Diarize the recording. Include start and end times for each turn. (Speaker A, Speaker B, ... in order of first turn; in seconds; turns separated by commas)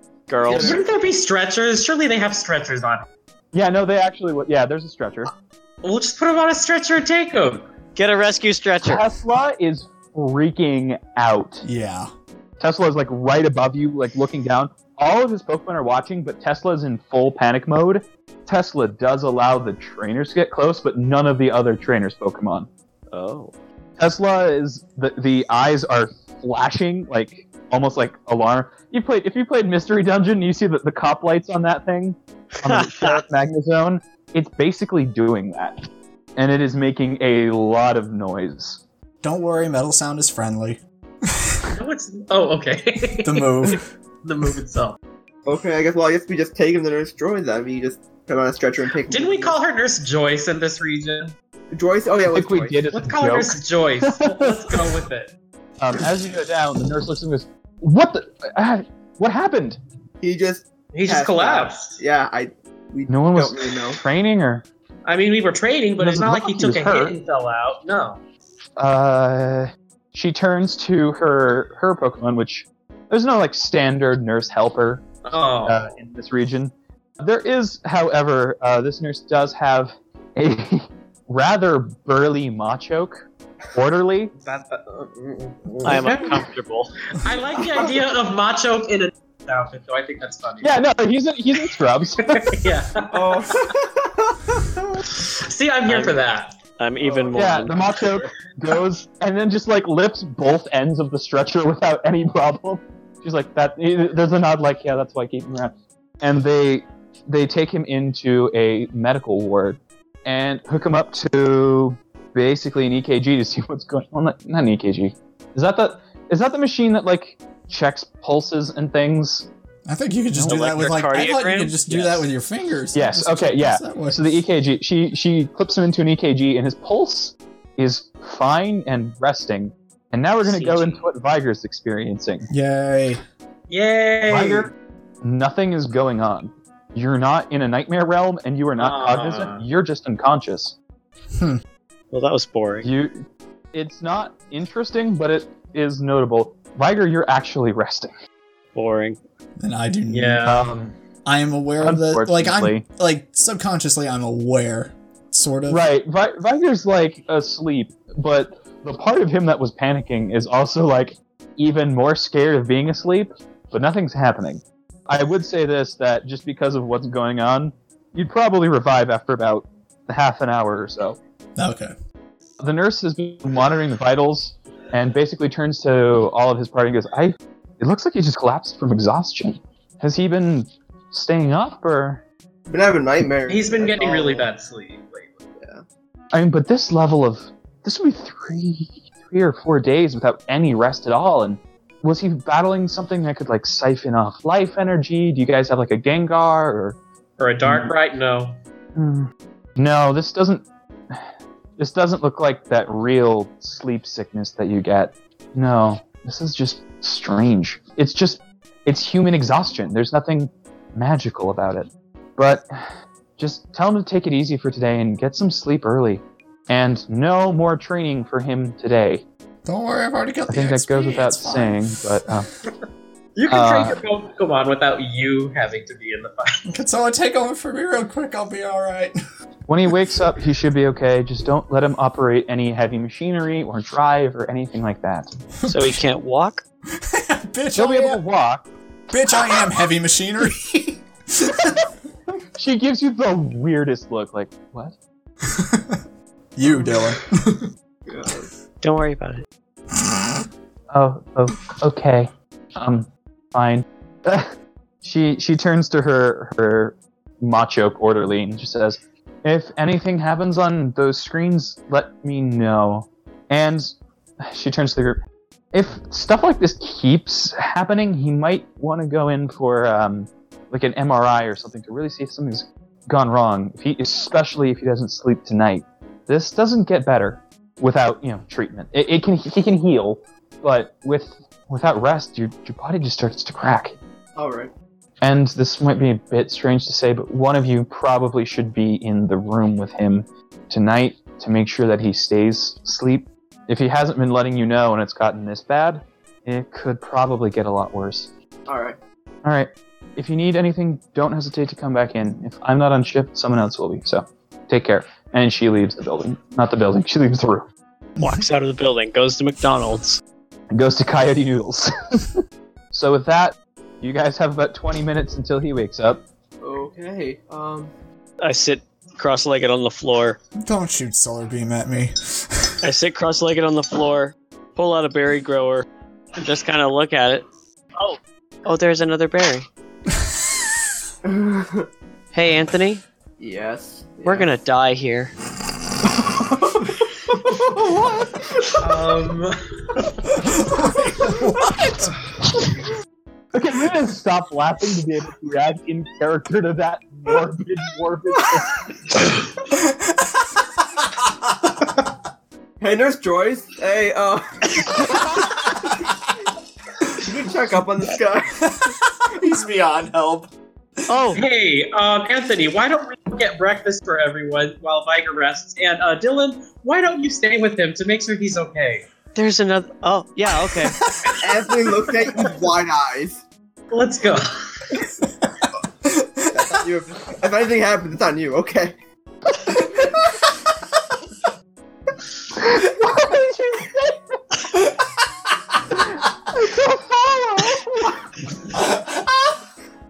Speaker A: 0.3-0.8, Speaker B: 0.4-3.0, Speaker C: 0.5-1.0, Speaker D: 3.5-5.3, Speaker B: 5.8-7.7, Speaker A: 8.0-9.0, Speaker D: 8.8-11.6, Speaker E: 11.6-12.1, Speaker D: 12.6-22.7, Speaker A: 23.1-23.5, Speaker D: 24.0-35.8, Speaker A: 32.6-33.2, Speaker D: 36.4-38.8, Speaker E: 39.2-41.6, Speaker B: 41.7-45.0, Speaker E: 43.2-43.8, Speaker C: 45.5-49.6, Speaker B: 49.1-51.3, Speaker C: 51.7-52.8, Speaker D: 52.3-54.9, Speaker B: 52.9-55.3, Speaker D: 55.8-59.8, Speaker C: 60.2-64.0, Speaker B: 60.9-62.0, Speaker D: 63.1-64.6, Speaker B: 65.0-68.2, Speaker D: 66.0-67.2, Speaker D: 68.8-75.0, Speaker B: 75.2-75.9, Speaker D: 75.6-83.2, Speaker D: 83.7-84.3, Speaker B: 84.4-86.3, Speaker C: 85.8-86.1, Speaker A: 85.8-86.9, Speaker B: 87.2-90.8, Speaker D: 90.6-92.4, Speaker B: 92.2-93.5, Speaker C: 93.1-95.1, Speaker B: 95.2-96.5, Speaker A: 95.9-96.2, Speaker A: 96.8-98.2, Speaker C: 97.0-97.2, Speaker D: 97.3-119.5, Speaker E: 119.8-124.3, Speaker D: 120.3-120.7, Speaker A: 120.5-121.8, Speaker D: 121.9-122.2, Speaker D: 122.9-132.5, Speaker A: 130.4-131.0, Speaker E: 132.5-133.2, Speaker B: 133.7-134.7, Speaker D: 134.3-134.7, Speaker D: 135.2-140.8, Speaker B: 138.8-139.6, Speaker E: 141.3-141.6, Speaker A: 142.1-142.9, Speaker D: 142.8-143.2, Speaker D: 143.7-148.1, Speaker A: 148.7-149.2, Speaker E: 149.6-150.6, Speaker B: 150.1-150.7, Speaker D: 150.4-150.9, Speaker E: 151.2-155.9, Speaker D: 151.8-152.8, Speaker D: 155.7-171.2, Speaker E: 171.6-171.9, Speaker D: 172.6-182.2, Speaker C: 182.7-184.5, Speaker B: 183.5-185.4, Speaker C: 185.6-185.8, Speaker D: 186.3-197.0, Speaker B: 197.4-198.6, Speaker D: 197.6-197.9, Speaker D: 198.9-201.2, Speaker D: 201.8-219.2, Speaker E: 219.6-221.8, Speaker D: 220.5-222.5, Speaker B: 223.3-226.6, Speaker D: 223.5-224.0, Speaker E: 226.7-229.2, Speaker D: 229.7-235.3, Speaker E: 235.6-236.0, Speaker A: 235.7-236.6, Speaker E: 236.9-238.2, Speaker D: 237.7-238.7, Speaker E: 239.1-241.8, Speaker D: 242.5-244.9, Speaker E: 245.4-246.0, Speaker E: 246.6-247.7, Speaker C: 248.1-248.5, Speaker A: 248.8-249.4, Speaker E: 250.0-250.3, Speaker D: 250.9-254.5, Speaker D: 255.0-265.2, Speaker D: 265.7-283.9, Speaker C: 284.4-284.7, Speaker D: 285.2-298.3, Speaker C: 298.7-299.0, Speaker D: 299.4-307.7, Speaker E: 308.2-308.4, Speaker A: 308.2-310.2, Speaker D: 310.7-312.4, Speaker D: 312.9-316.2, Speaker C: 316.6-317.9, Speaker A: 318.4-320.4, Speaker E: 320.6-322.8, Speaker A: 322.8-325.8, Speaker A: 326.4-327.4, Speaker A: 328.0-329.7, Speaker C: 331.2-331.9, Speaker A: 332.3-333.0, Speaker C: 333.4-334.5, Speaker A: 334.2-335.3, Speaker C: 336.3-339.1, Speaker B: 338.8-340.1, Speaker E: 340.4-342.1, Speaker D: 343.5-348.8, Speaker E: 349.7-350.3, Speaker C: 352.8-355.1, Speaker C: 357.1-358.8, Speaker E: 358.6-360.5, Speaker A: 361.1-361.4, Speaker B: 361.3-369.1, Speaker A: 369.3-371.0, Speaker E: 370.6-371.3, Speaker C: 371.4-373.4, Speaker B: 373.9-374.6, Speaker E: 376.0-376.4, Speaker C: 376.5-378.9, Speaker D: 382.5-384.2, Speaker D: 385.9-388.2, Speaker E: 388.8-389.2